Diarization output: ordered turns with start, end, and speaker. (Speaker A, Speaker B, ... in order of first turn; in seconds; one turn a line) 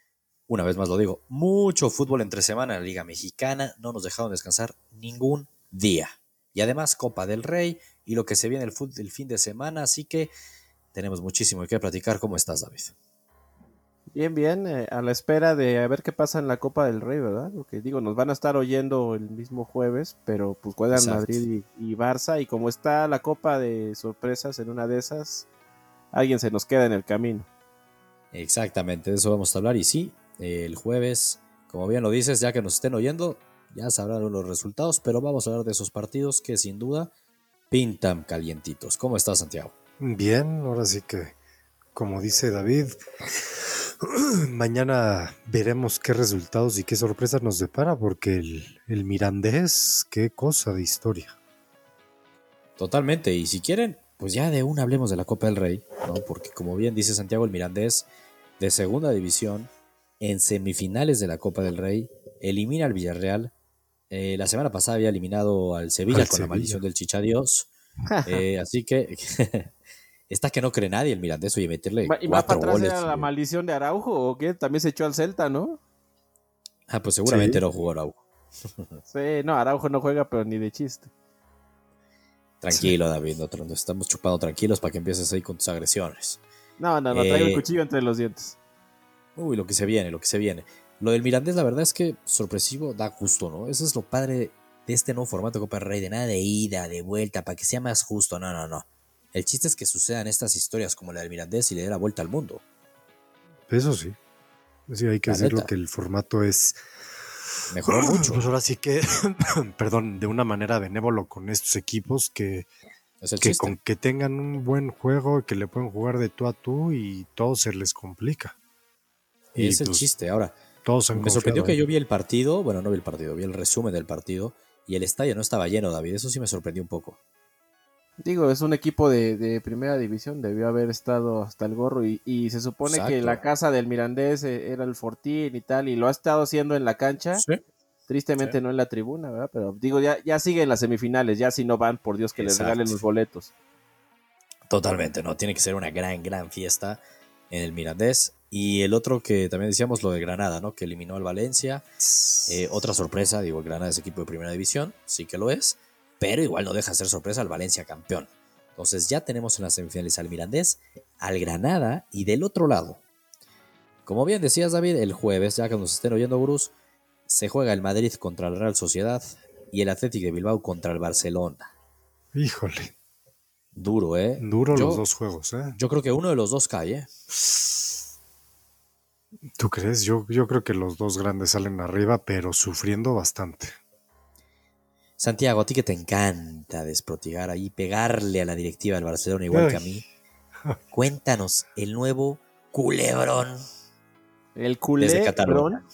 Speaker A: 0.5-10.3
Speaker A: 10.9-12.9
Speaker B: 14.1-25.5
Speaker A: 20.9-21.4
Speaker B: 26.1-27.5
Speaker A: 28.3-37.1
Speaker A: 37.7-39.7
Speaker C: 40.0-41.4
Speaker C: 41.9-43.0
Speaker C: 43.5-51.4
Speaker A: 52.8-58.0
Speaker A: 58.6-59.7
Speaker A: 60.2-63.5
Speaker A: 64.1-67.7
Speaker C: 66.1-66.8
Speaker B: 68.1-68.4
Speaker A: 68.2-69.7
Speaker A: 70.3-73.3
Speaker B: 72.0-75.8
Speaker A: 76.9-78.2
Speaker C: 77.3-77.6
Speaker B: 79.1-81.1
Speaker A: 82.6-86.4
Speaker B: 86.8-88.5
Speaker A: 87.1-87.6
Speaker A: 89.3-102.6
Speaker C: 103.7-104.2
Speaker C: 104.9-106.8
Speaker A: 105.3-105.7
Speaker A: 107.7-108.4
Speaker C: 107.9-112.7
Speaker A: 113.2-113.8
Speaker C: 113.4-118.5
Speaker C: 119.5-120.1
Speaker A: 119.5-120.5
Speaker C: 120.8-121.8
Speaker A: 121.1-127.2
Speaker B: 128.2-137.4
Speaker A: 132.8-133.4
Speaker A: 137.3-137.6
Speaker B: 138.1-143.5
Speaker A: 142.4-143.0
Speaker A: 144.7-147.0
Speaker A: 147.5-151.8
Speaker C: 152.0-152.7
Speaker A: 152.4-163.0
Speaker A: 164.1-166.7
Speaker A: 167.3-171.7
Speaker C: 172.3-172.9
Speaker A: 173.7-175.0
Speaker C: 174.4-175.8
Speaker A: 175.8-177.1
Speaker C: 177.4-177.7
Speaker C: 179.6-183.8
Speaker A: 185.2-190.0
Speaker C: 189.5-190.0
Speaker A: 190.9-193.6
Speaker B: 194.6-195.8
Speaker A: 195.0-195.7